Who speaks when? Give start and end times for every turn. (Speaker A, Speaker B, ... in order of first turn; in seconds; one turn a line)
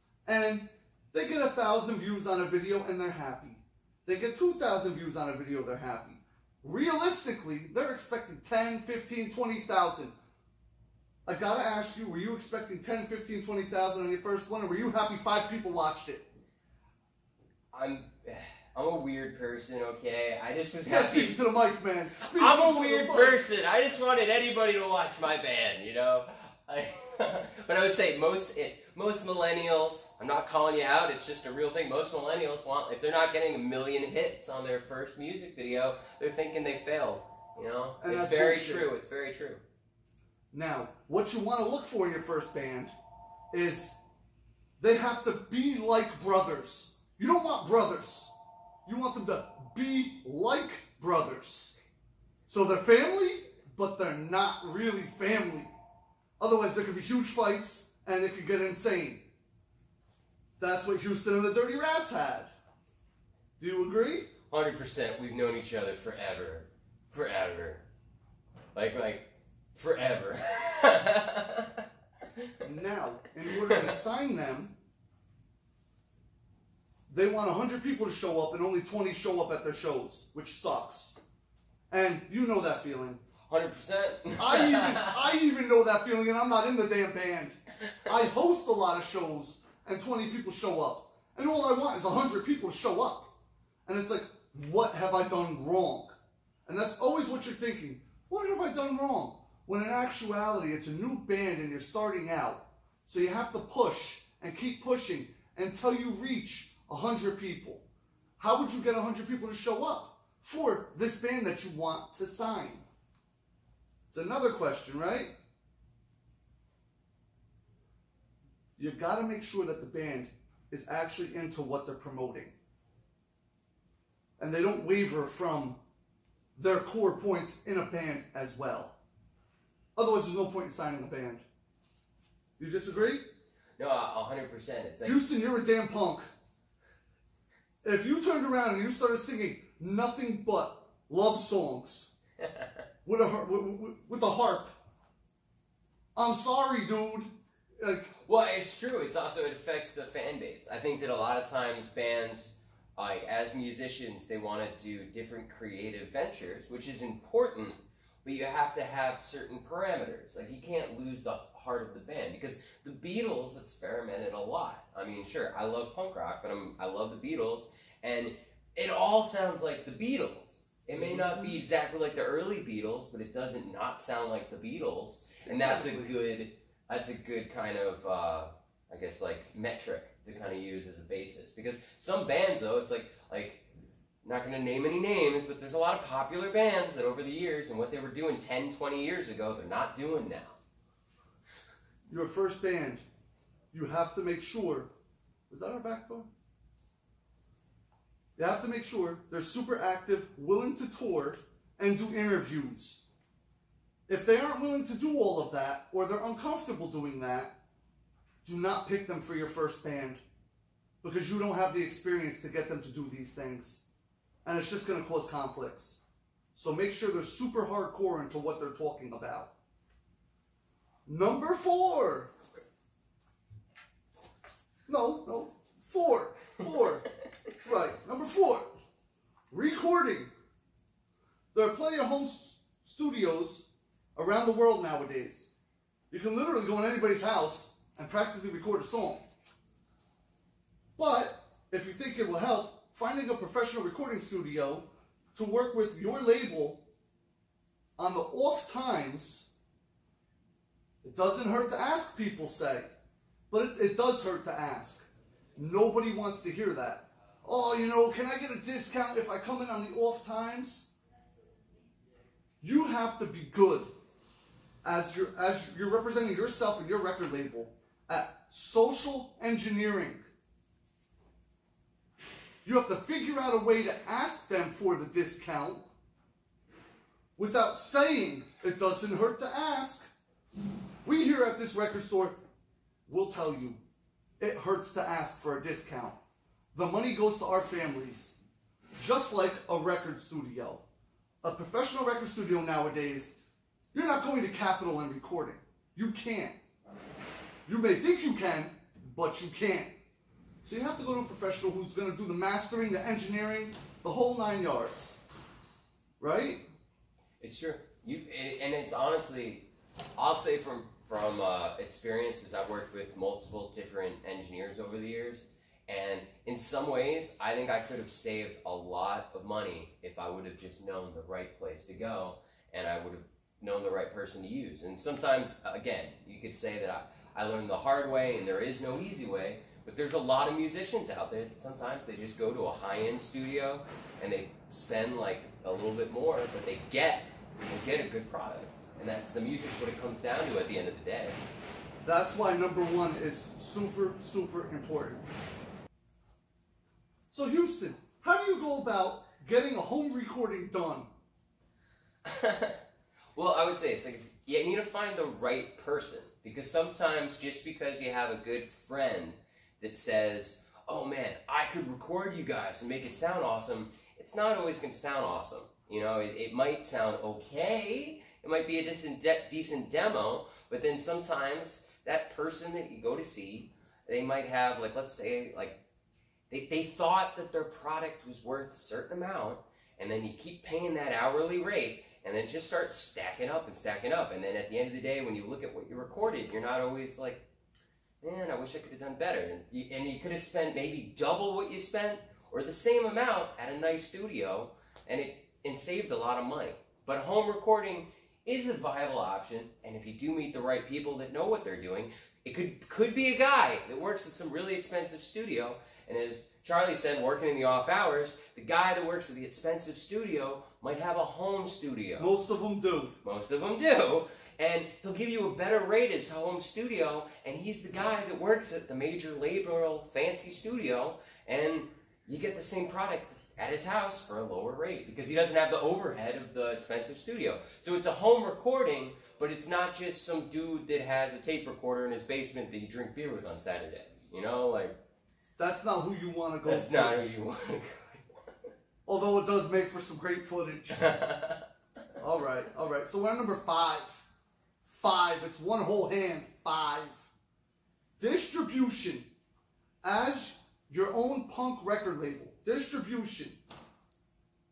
Speaker A: 0.2-10.1
Speaker A: 11.2-16.2
Speaker B: 17.7-21.5
Speaker A: 20.8-23.4
Speaker B: 22.2-39.6
Speaker A: 38.0-38.9
Speaker A: 40.5-42.9
Speaker A: 43.5-43.9
Speaker A: 44.8-48.3
Speaker A: 48.9-51.8
Speaker A: 52.5-55.7
Speaker A: 56.4-59.2
Speaker A: 60.6-62.5
Speaker A: 63.6-64.3
Speaker B: 64.5-67.8
Speaker B: 68.7-71.8
Speaker A: 72.6-74.7
Speaker B: 73.6-74.0
Speaker A: 77.1-81.2
Speaker A: 81.9-83.2
Speaker B: 83.5-85.2
Speaker A: 84.4-93.3
Speaker A: 93.8-96.2
Speaker A: 96.7-107.8
Speaker A: 108.4-112.8
Speaker A: 114.1-115.3
Speaker A: 118.8-122.5
Speaker A: 124.4-125.8
Speaker A: 126.5-128.9
Speaker A: 129.9-131.4
Speaker A: 132.6-133.2
Speaker B: 133.8-135.2
Speaker A: 135.0-136.3
Speaker A: 137.8-142.1
Speaker B: 142.4-142.7
Speaker A: 143.0-144.7
Speaker A: 146.1-148.1
Speaker B: 148.2-183.7
Speaker A: 171.0-171.6
Speaker A: 175.4-176.1
Speaker B: 184.2-190.6
Speaker A: 192.1-193.0
Speaker A: 193.7-194.9
Speaker A: 195.5-196.3
Speaker A: 198.4-203.0
Speaker A: 204.1-207.5
Speaker A: 208.4-210.2
Speaker A: 211.0-213.8
Speaker A: 214.4-216.0
Speaker A: 216.5-219.5
Speaker A: 221.1-222.3
Speaker A: 224.9-227.1
Speaker A: 227.6-228.7
Speaker A: 229.5-230.3
Speaker A: 231.5-235.5
Speaker A: 236.1-239.2
Speaker A: 240.9-246.8
Speaker A: 248.0-249.5
Speaker A: 251.0-252.9
Speaker A: 253.5-260.9
Speaker A: 262.6-263.9
Speaker A: 264.8-270.2
Speaker A: 272.6-275.8
Speaker A: 277.4-280.1
Speaker A: 281.0-282.4
Speaker A: 283.1-283.8
Speaker A: 284.4-286.2
Speaker A: 286.7-288.4
Speaker A: 289.0-290.8
Speaker A: 291.4-293.4
Speaker A: 293.9-296.6
Speaker A: 297.6-299.9
Speaker A: 300.6-305.2
Speaker A: 306.2-306.6
Speaker B: 307.4-341.4
Speaker A: 342.0-345.3
Speaker A: 347.3-351.1
Speaker B: 352.2-352.8
Speaker B: 353.3-375.8
Speaker B: 376.5-387.4
Speaker B: 388.2-412.3
Speaker A: 412.2-413.1
Speaker B: 413.2-434.9
Speaker A: 435.6-437.2
Speaker B: 436.6-438.3
Speaker A: 439.1-441.0
Speaker B: 440.9-441.6
Speaker A: 442.2-444.2
Speaker A: 444.8-447.3
Speaker A: 448.2-449.3
Speaker A: 450.0-453.6